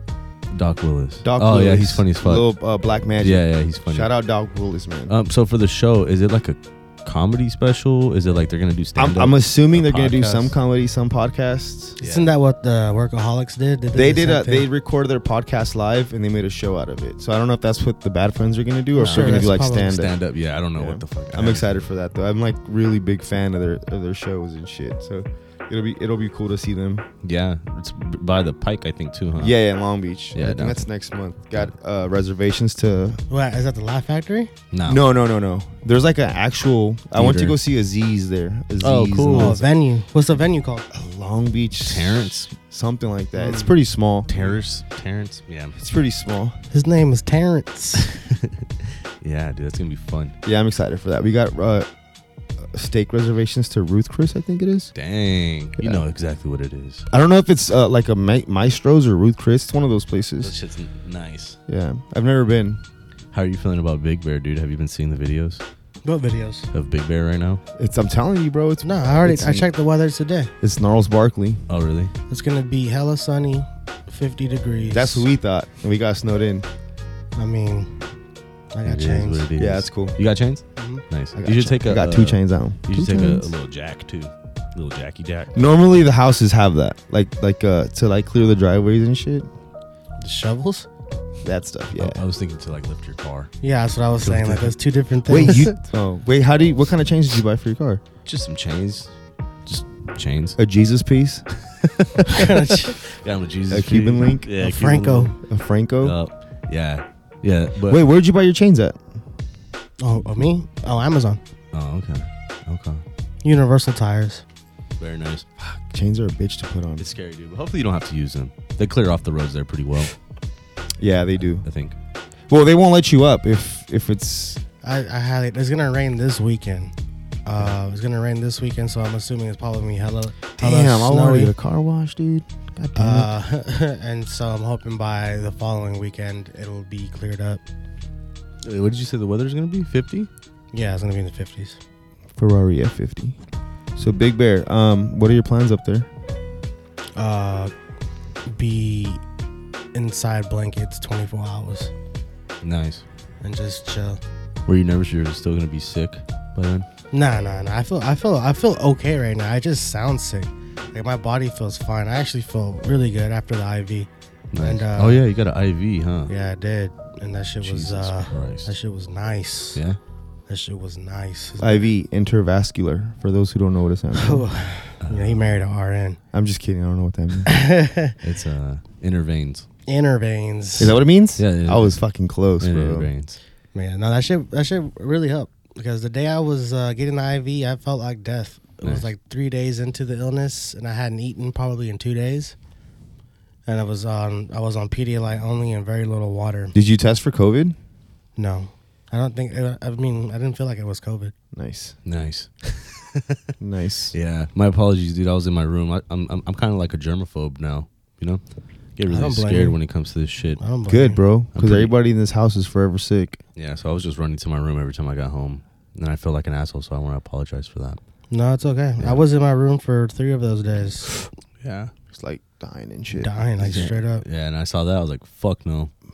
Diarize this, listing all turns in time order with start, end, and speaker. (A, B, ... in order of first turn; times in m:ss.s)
0:00.5-0:02.5 A
0:01.2-0:05.1 B
0:03.2-0:04.1 A
0:05.1-0:10.6 A
0:09.0-0:12.0 B
0:12.0-0:12.3 A
0:12.0-0:14.7 C
0:13.9-0:20.1 B
0:19.0-0:20.0 C
0:19.0-0:21.8 A
0:20.8-0:27.1 B
0:27.2-0:29.6 A
0:29.4-0:33.2 B
0:30.4-0:30.8 A
0:33.3-0:34.5 C
0:34.7-0:35.0 A
0:34.9-0:39.6 B
0:37.2-0:37.6 A
0:38.8-0:39.6 A
0:39.3-0:40.9 C
0:40.9-0:44.5 B
0:41.8-0:42.5 A
0:43.4-0:43.7 C
0:44.3-0:45.8 A
0:45.8-0:46.6 B
0:46.7-0:48.1 C
0:48.0-0:50.3 A
0:50.4-0:51.9 B
0:52.6-0:54.9 B
0:55.0-0:57.0 A
0:55.8-0:56.0 B
0:57.1-1:00.6 B
1:00.4-1:01.6 A
1:01.7-1:02.8 B
1:03.3-1:05.6 A
1:06.0-1:06.7 C
1:06.7-1:07.6 A
1:07.8-1:09.7 B
1:08.8-1:10.5 C
1:10.6-1:11.6 B
1:11.7-1:12.1 A
1:12.3-1:15.3 C
1:14.9-1:16.7 B
1:17.4-1:17.9 C
1:18.7-1:19.5 C
1:18.8-1:25.6 A
1:19.6-1:20.2 B
1:20.8-1:21.0 C
1:21.4-1:23.5 B
1:25.6-1:29.5 B
1:30.2-1:30.9 C
1:31.4-1:32.2 B
1:32.0-1:33.5 A
1:33.6-1:35.8 C
1:34.2-1:34.7 A
1:35.3-1:38.0 B
1:38.3-1:39.1 A
1:39.7-1:40.6 A
1:40.6-1:41.4 B
1:41.8-1:45.4 A
1:42.3-1:43.0 C
1:43.7-1:44.5 B
1:44.6-1:45.4 C
1:45.4-1:46.2 B
1:46.0-1:48.0 A
1:47.9-1:49.0 B
1:50.0-1:51.4 C
1:51.7-1:53.0 A
1:53.4-1:54.4 C
1:55.0-1:55.5 A
1:55.6-1:57.0 B
1:57.0-2:00.2 A
2:01.0-2:01.7 B
2:01.6-2:02.0 A
2:02.5-2:04.6 B
2:04.8-2:06.9 C
2:07.5-2:11.5 C
2:10.6-2:13.3 B
2:13.0-2:17.6 C
2:18.6-2:20.3 A
2:20.7-2:21.8 C
2:22.4-2:23.4 B
2:24.0-2:26.1 B
2:27.2-2:27.7 C
2:28.5-2:29.2 C
2:29.9-2:31.9 C
2:32.6-2:33.0 A
2:33.4-2:34.2 C
2:34.7-2:36.9 A
2:37.1-2:45.2 C
2:44.5-2:46.3 A
2:46.3-2:49.8 C
2:47.6-2:48.7 A
2:50.5-2:51.9 C
2:51.6-2:54.4 B
2:54.2-2:56.2 C
2:55.0-2:55.5 A
2:56.3-2:57.5 B
2:57.5-2:58.2 C
2:58.2-2:59.7 A
2:59.9-3:01.0 C
3:00.8-3:03.1 B
3:01.4-3:02.0 A
3:02.6-3:03.4 A
3:03.7-3:12.6 C
3:13.7-3:16.8 C
3:16.7-3:17.8 B
3:18.4-3:21.3 C
3:21.5-3:22.0 B
3:22.0-3:23.4 A
3:23.6-3:24.2 B
3:24.1-3:28.4 A
3:29.0-3:30.6 A
3:29.1-3:29.8 C
3:30.6-3:31.2 C
3:30.9-3:33.4 B
3:31.6-3:31.9 A
3:33.6-3:38.0 A
3:38.3-3:41.1 C
3:41.6-3:41.9 A
3:42.1-3:43.3 B
3:43.1-3:44.2 C
3:43.6-3:45.9 A